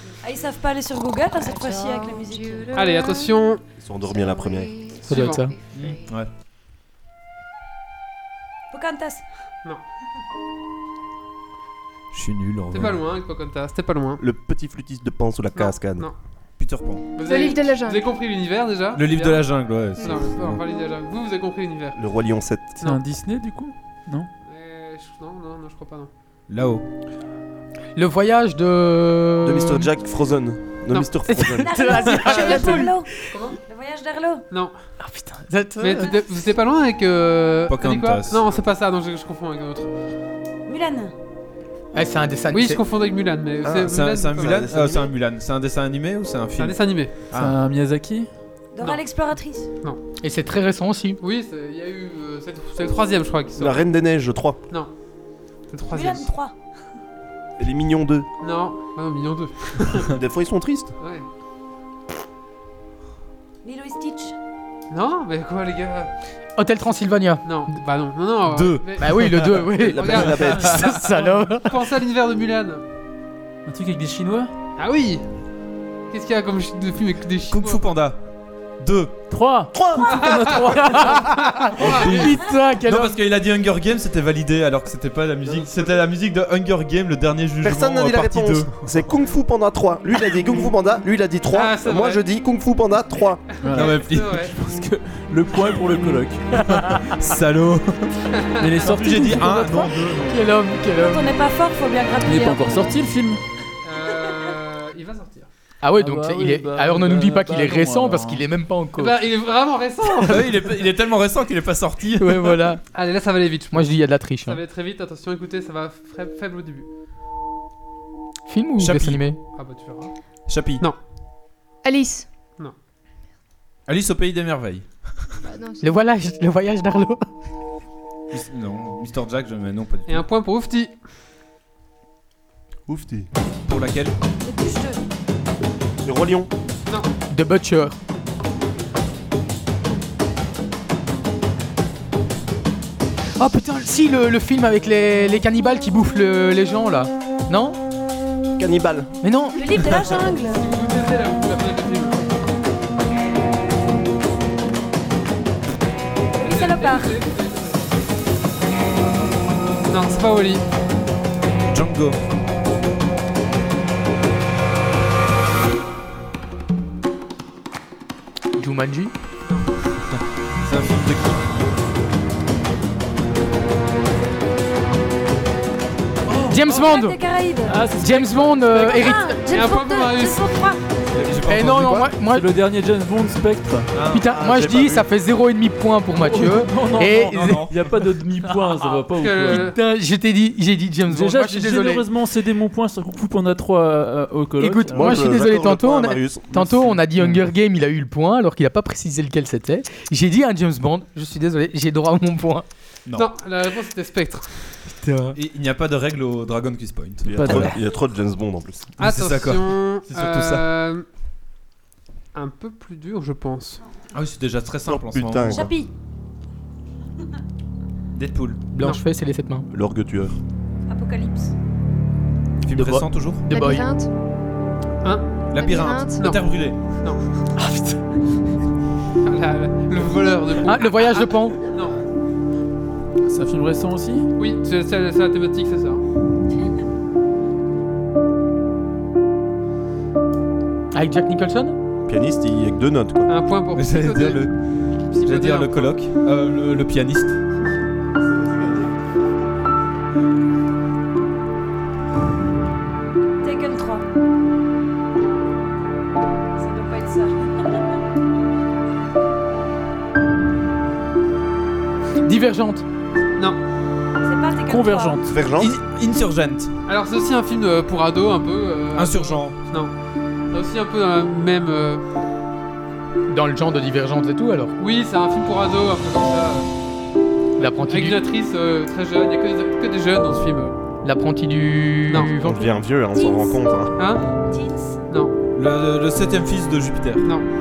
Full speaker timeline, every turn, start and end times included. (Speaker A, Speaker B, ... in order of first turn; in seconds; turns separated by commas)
Speaker A: 0.2-2.8, Speaker B: 2.7-3.6, Speaker C: 3.8-4.8, Speaker B: 5.0-5.5, Speaker D: 5.1-5.5, Speaker E: 5.7-6.3, Speaker A: 8.7-9.2, Speaker E: 12.1-13.0, Speaker B: 12.7-14.2, Speaker C: 14.2-16.1, Speaker B: 15.5-16.1, Speaker E: 16.6-17.1, Speaker B: 17.1-22.0, Speaker F: 17.2-18.0, Speaker E: 18.9-20.6, Speaker C: 21.9-22.8, Speaker G: 22.8-24.3, Speaker B: 24.4-26.1, Speaker E: 26.5-26.9, Speaker D: 27.9-29.9, Speaker C: 29.4-31.8, Speaker D: 31.3-33.1, Speaker A: 31.6-34.4, Speaker B: 33.3-33.6, Speaker D: 35.0-36.1, Speaker B: 35.8-39.9, Speaker E: 37.7-38.4, Speaker A: 40.6-41.1, Speaker D: 41.9-42.8, Speaker B: 42.5-44.6, Speaker C: 43.6-45.1, Speaker E: 43.8-47.6, Speaker B: 46.6-47.1, Speaker G: 47.3-48.3, Speaker A: 48.7-49.7, Speaker D: 50.2-51.2, Speaker B: 51.2-53.8, Speaker C: 53.6-54.6, Speaker B: 55.7-56.3, Speaker A: 55.9-56.5, Speaker C: 57.6-58.3, Speaker B: 58.4-60.1, Speaker C: 60.1-60.9, Speaker B: 61.0-61.3, Speaker A: 63.6-64.3, Speaker B: 64.9-66.1, Speaker D: 66.5-67.6, Speaker B: 67.4-72.8, Speaker E: 68.5-69.6, Speaker D: 69.0-71.8, Speaker C: 69.8-70.7, Speaker G: 73.7-74.5, Speaker B: 74.8-75.2, Speaker B: 76.1-77.8, Speaker E: 77.5-78.2, Speaker E: 78.8-79.2, Speaker G: 79.3-81.5, Speaker B: 80.1-80.4, Speaker D: 80.7-83.2, Speaker B: 81.6-82.0, Speaker E: 81.8-88.8, Speaker C: 85.4-86.0, Speaker C: 87.6-93.5, Speaker B: 91.5-92.2, Speaker G: 93.6-96.7, Speaker B: 93.6-94.5, Speaker E: 93.7-94.5, Speaker D: 96.6-97.0, Speaker E: 96.6-98.1, Speaker B: 98.3-98.8, Speaker G: 98.6-100.3, Speaker E: 98.8-100.3, Speaker D: 100.2-101.3, Speaker A: 100.9-103.0, Speaker G: 102.2-103.4, Speaker B: 103.8-105.5, Speaker D: 105.8-109.2, Speaker G: 106.0-108.4, Speaker B: 109.0-110.5, Speaker E: 110.2-112.7, Speaker D: 112.2-112.8, Speaker B: 112.9-116.9, Speaker D: 113.7-114.6, Speaker D: 118.5-119.4, Speaker E: 118.8-119.2, Speaker B: 119.5-120.1, Speaker E: 120.5-120.8, Speaker F: 121.8-122.2, Speaker E: 123.9-124.9, Speaker F: 125.4-125.9, Speaker D: 125.8-127.2, Speaker E: 128.3-130.2, Speaker B: 130.1-130.9, Speaker C: 132.9-133.3, Speaker E: 133.6-134.1, Speaker A: 134.4-135.0, Speaker C: 136.0-136.5, Speaker D: 137.3-138.0, Speaker D: 143.4-147.8, Speaker C: 148.6-149.1, Speaker D: 149.2-149.6, Speaker A: 149.5-150.6, Speaker B: 150.4-152.2, Speaker A: 156.4-157.2, Speaker B: 156.4-157.8, Speaker B: 159.9-160.6, Speaker E: 161.7-162.2, Speaker D: 168.6-169.1, Speaker E: 170.6-171.4, Speaker E: 176.3-176.6, Speaker D: 176.5-177.2, Speaker A: 176.6-177.9, Speaker G: 177.7-178.9, Speaker D: 177.9-179.4, Speaker A: 178.6-180.8, Speaker B: 179.5-180.4, Speaker E: 181.1-182.2, Speaker D: 181.4-182.5, Speaker G: 182.2-183.9, Speaker E: 183.9-184.4, Speaker D: 184.1-187.7, Speaker C: 184.3-185.1, Speaker G: 186.2-189.8, Speaker E: 187.0-187.9, Speaker B: 188.8-189.8, Speaker D: 189.5-192.1, Speaker G: 191.1-195.2, Speaker D: 194.6-202.7, Speaker C: 194.9-196.9, Speaker G: 197.2-197.5, Speaker B: 203.1-204.6, Speaker D: 205.0-205.4, Speaker E: 205.3-207.8, Speaker C: 207.2-208.9, Speaker G: 207.3-207.8, Speaker E: 209.0-210.7, Speaker B: 209.0-211.0, Speaker B: 212.3-213.8, Speaker E: 214.1-215.7, Speaker C: 214.8-215.7, Speaker A: 215.5-215.9, Speaker E: 218.1-218.6, Speaker D: 218.7-219.7, Speaker C: 219.7-220.4, Speaker A: 220.9-221.5, Speaker E: 222.6-223.4, Speaker D: 222.7-223.9, Speaker F: 223.5-224.1, Speaker B: 225.0-225.3, Speaker E: 225.5-226.8, Speaker F: 225.6-226.2, Speaker D: 227.6-228.0, Speaker B: 229.2-231.9, Speaker D: 230.6-231.6, Speaker G: 233.2-234.3, Speaker B: 234.4-236.0, Speaker D: 240.9-241.8, Speaker C: 242.1-243.3, Speaker B: 243.3-244.5, Speaker E: 243.7-244.5, Speaker B: 245.1-245.9, Speaker E: 245.2-247.3, Speaker C: 248.4-248.8, Speaker A: 253.4-254.0, Speaker A: 256.6-258.0, Speaker D: 262.2-262.8, Speaker A: 264.2-265.3, Speaker G: 264.7-265.2, Speaker C: 265.2-265.7, Speaker E: 265.6-266.7, Speaker B: 266.9-269.9, Speaker E: 268.9-269.6, Speaker B: 270.5-272.0, Speaker D: 273.3-274.7, Speaker B: 274.8-276.7, Speaker D: 277.6-278.2, Speaker B: 277.9-280.7, Speaker D: 281.0-282.7, Speaker C: 282.2-283.9, Speaker A: 283.1-283.6, Speaker B: 283.9-284.2, Speaker A: 284.5-285.0, Speaker B: 285.1-285.3, Speaker E: 285.6-287.2